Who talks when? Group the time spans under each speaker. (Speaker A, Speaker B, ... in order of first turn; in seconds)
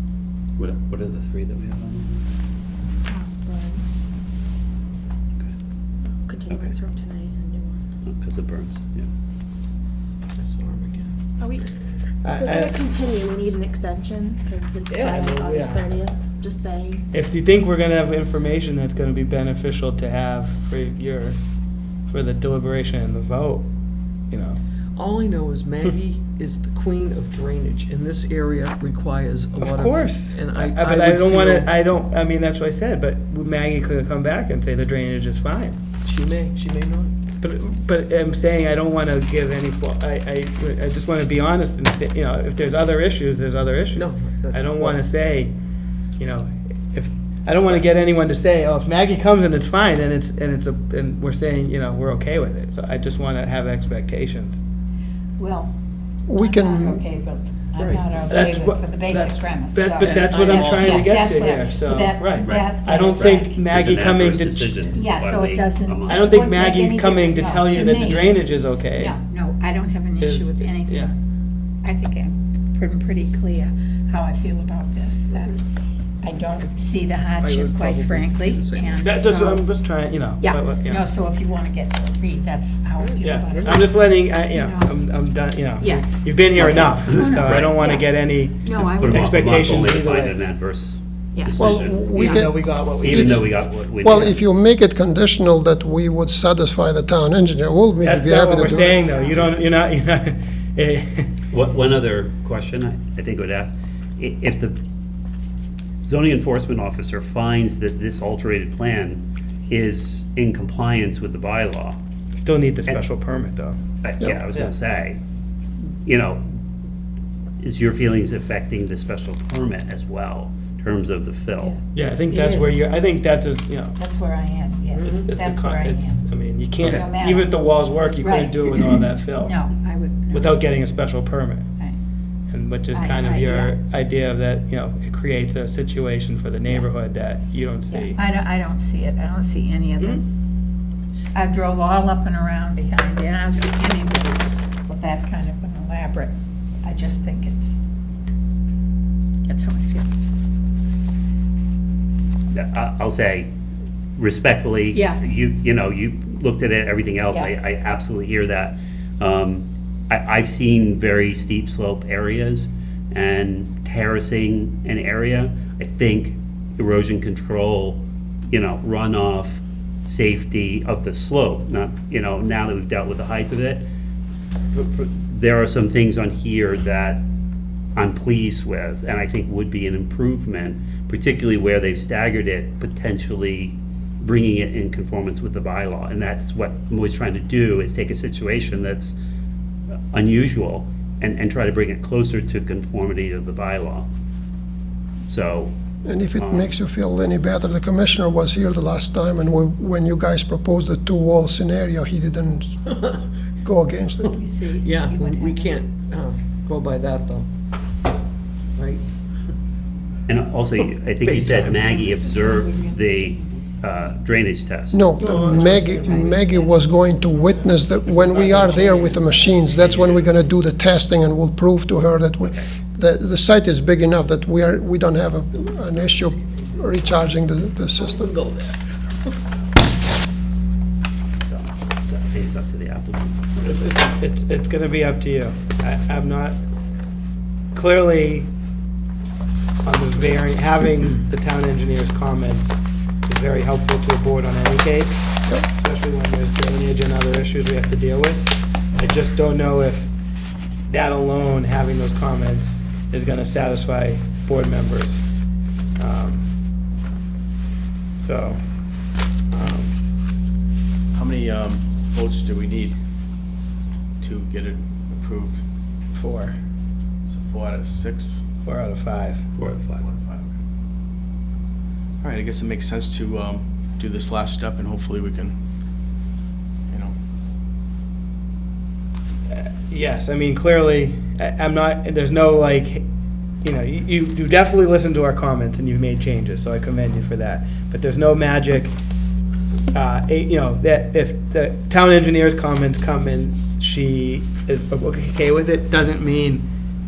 Speaker A: 0.6-2.2, 6.5-6.8, 8.0-9.1, 62.4-66.3, 86.6-87.8, 88.9-92.2, 93.0-94.4, 101.5-104.8, 106.0-112.0, 114.0-115.2, 116.0-116.4, 117.6-121.8, 152.5-153.5, 154.2-173.9, 174.7-177.2, 177.9-189.2, 190.1-194.1, 195.3-195.7, 196.3-196.7, 210.3-215.1, 219.7-220.3, 222.4-222.7, 231.4-233.6, 269.5-270.1
Speaker B: 3.1-3.9, 6.2-7.8, 11.4-11.7, 12.3-17.0
Speaker C: 10.3-12.8, 14.9-16.1, 24.9-31.8, 36.0-37.1, 43.9-45.0, 57.8-58.0, 60.0-61.0, 77.4-79.0, 83.0-83.8, 124.9-125.3, 204.8-207.5, 208.8-209.0, 211.2-211.9, 215.2-216.2, 226.0-227.1, 228.0-229.4
Speaker D: 17.1-21.4, 22.1-23.7, 24.3-24.6, 29.6-35.8, 37.4-45.5, 46.2-54.6, 58.3-64.7, 66.1-69.2, 70.2-71.1, 79.0-81.0, 83.2-90.4, 92.1-93.5, 98.0-101.3, 112.3-113.8, 121.9-124.0, 125.2-129.5, 130.3-131.7, 132.5-138.2, 233.6-236.6, 237.7-238.5, 239.8-250.1, 250.9-255.3, 256.0-256.4, 258.2-258.6, 259.5-259.9, 266.1-266.6, 268.6-269.5, 279.5-283.0, 283.6-288.9, 289.9-296.7
Speaker E: 55.4-55.7, 56.3-63.6, 64.9-71.1, 71.8-75.6, 76.2-79.7, 80.4-84.0, 84.5-84.9, 85.8-89.3, 91.3-92.5, 98.7-99.6, 122.3-122.8, 124.0-127.6, 128.2-130.7, 132.9-133.7, 137.9-140.2, 141.3-147.8, 149.5-150.1, 154.9-155.2, 204.3-205.8, 211.8-214.1, 215.2-216.8
Speaker F: 56.3-57.0, 91.6-99.1, 196.0-202.8, 203.6-204.3, 214.9-228.3
Speaker G: 218.2-219.6, 261.1-263.0, 264.2-265.6, 267.3-268.4, 270.0-270.6, 272.2-275.6, 276.9-277.1